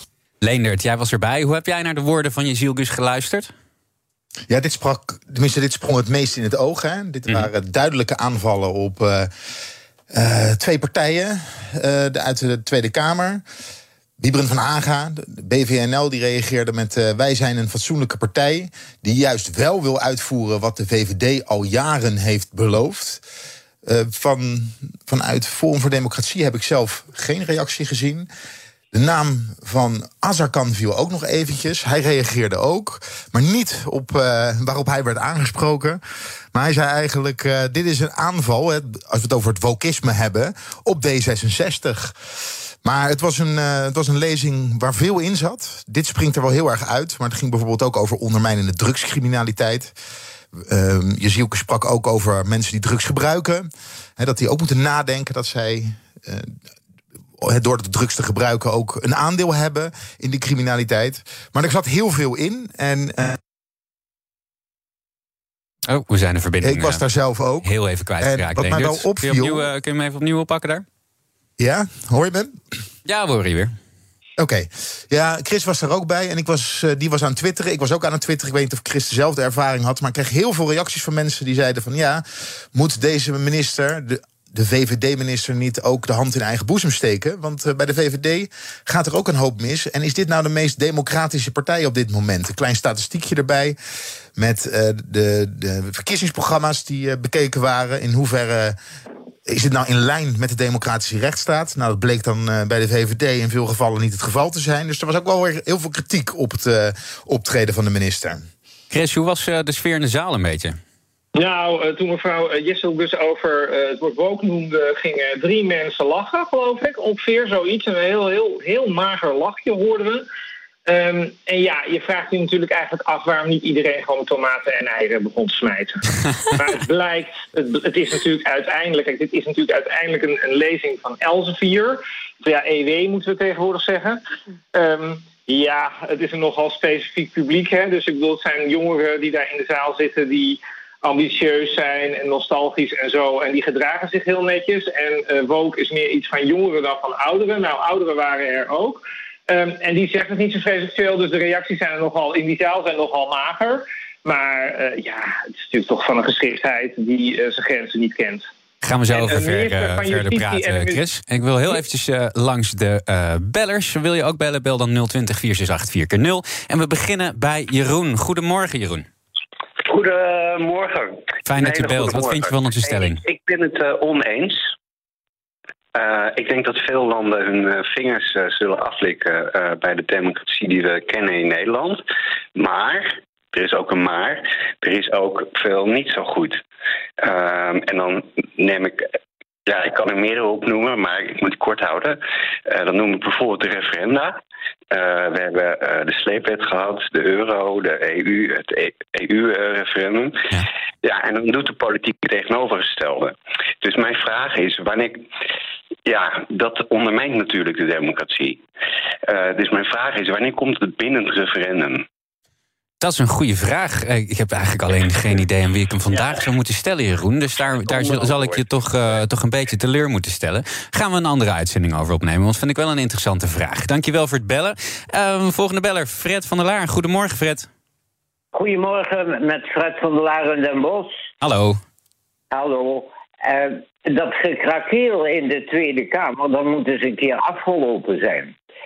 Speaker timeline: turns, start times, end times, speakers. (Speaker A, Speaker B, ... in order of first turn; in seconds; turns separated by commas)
Speaker A: 0.4-3.5, Speaker B: 4.5-9.3, Speaker B: 10.1-13.4, Speaker B: 14.2-23.2, Speaker B: 23.8-28.3, Speaker B: 28.9-36.0, Speaker B: 36.5-42.2, Speaker B: 42.8-49.9, Speaker B: 50.5-56.5, Speaker B: 57.4-63.4, Speaker A: 65.9-67.0, Speaker B: 66.6-69.7, Speaker A: 67.6-70.8, Speaker B: 71.6-72.6, Speaker A: 73.1-73.7, Speaker B: 74.4-93.8, Speaker B: 94.4-98.8, Speaker B: 99.5-108.5, Speaker A: 108.9-110.8, Speaker C: 111.4-120.3, Speaker C: 120.9-134.2, Speaker C: 134.7-158.5, Speaker A: 158.8-169.1, Speaker C: 159.1-161.0, Speaker D: 169.8-174.7, Speaker A: 171.5-173.2, Speaker D: 175.9-182.0, Speaker D: 182.6-186.6, Speaker D: 187.2-189.1, Speaker D: 189.7-194.4, Speaker D: 194.9-200.5, Speaker D: 201.0-205.2, Speaker D: 206.1-208.6, Speaker D: 209.3-212.0, Speaker A: 213.0-227.7, Speaker D: 217.9-218.6, Speaker E: 228.5-231.1, Speaker A: 231.4-231.8, Speaker E: 232.5-238.5